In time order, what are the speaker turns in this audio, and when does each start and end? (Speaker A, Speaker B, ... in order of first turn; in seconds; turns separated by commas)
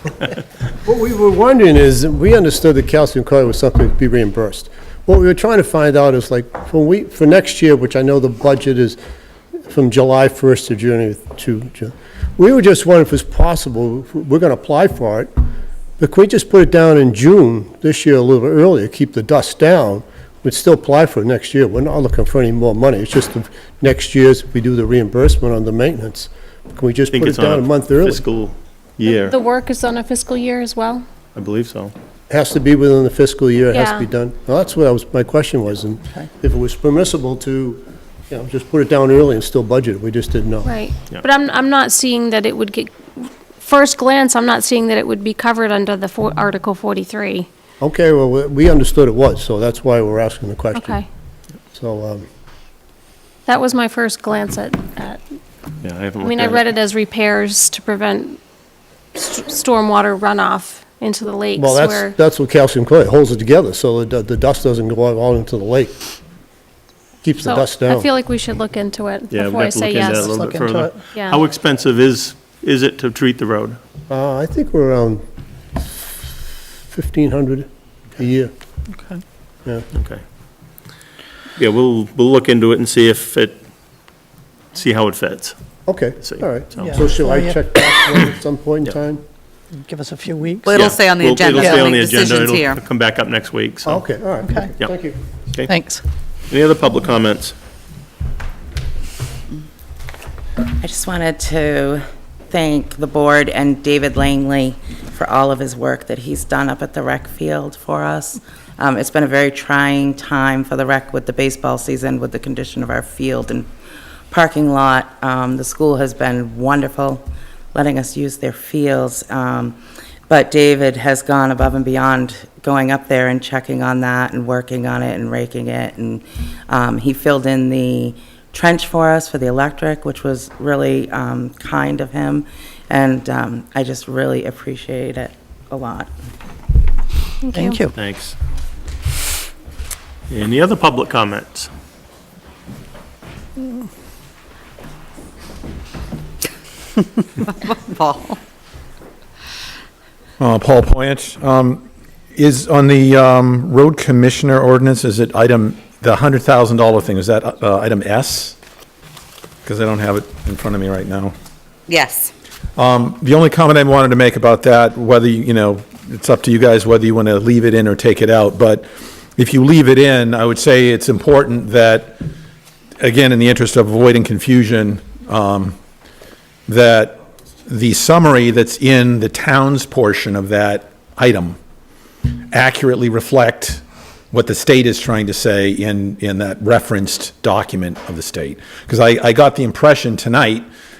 Speaker A: 0.8-9.0, Speaker A: 9.7-15.3, Speaker A: 16.0-28.2, Speaker B: 27.1-29.4, Speaker C: 29.1-31.0, Speaker B: 31.3-31.9, Speaker A: 32.3-40.7, Speaker C: 33.7-34.1, Speaker C: 40.6-47.5, Speaker A: 47.8-51.0, Speaker C: 50.7-51.0, Speaker A: 51.7-52.2, Speaker C: 53.5-55.2, Speaker B: 55.8-56.7, Speaker C: 56.2-58.4, Speaker C: 59.1-62.1, Speaker A: 61.6-65.9, Speaker A: 67.2-68.0, Speaker C: 67.4-70.4, Speaker B: 69.3-73.8, Speaker D: 70.3-71.0, Speaker C: 71.1-71.4, Speaker A: 74.1-75.2, Speaker A: 76.9-78.5, Speaker D: 79.0-79.2, Speaker B: 79.9-80.2, Speaker B: 81.6-83.6, Speaker B: 84.7-85.5, Speaker A: 85.8-89.2, Speaker B: 86.2-87.1, Speaker D: 86.8-87.6, Speaker D: 89.8-90.7, Speaker E: 90.6-92.8, Speaker B: 90.7-94.0, Speaker A: 93.8-95.2, Speaker D: 95.7-96.0, Speaker B: 96.5-97.5, Speaker F: 100.8-113.7, Speaker F: 114.3-117.2, Speaker F: 117.7-119.8, Speaker F: 120.3-136.1, Speaker C: 137.5-137.9, Speaker D: 137.5-137.9, Speaker B: 137.9-138.3, Speaker B: 140.3-141.7, Speaker E: 147.2-148.4, Speaker G: 150.4-151.8, Speaker G: 152.3-158.6, Speaker G: 159.6-161.3, Speaker E: 161.9-162.3, Speaker G: 162.8-172.2, Speaker G: 173.0-175.8, Speaker G: 176.7-181.6, Speaker G: 182.5-190.7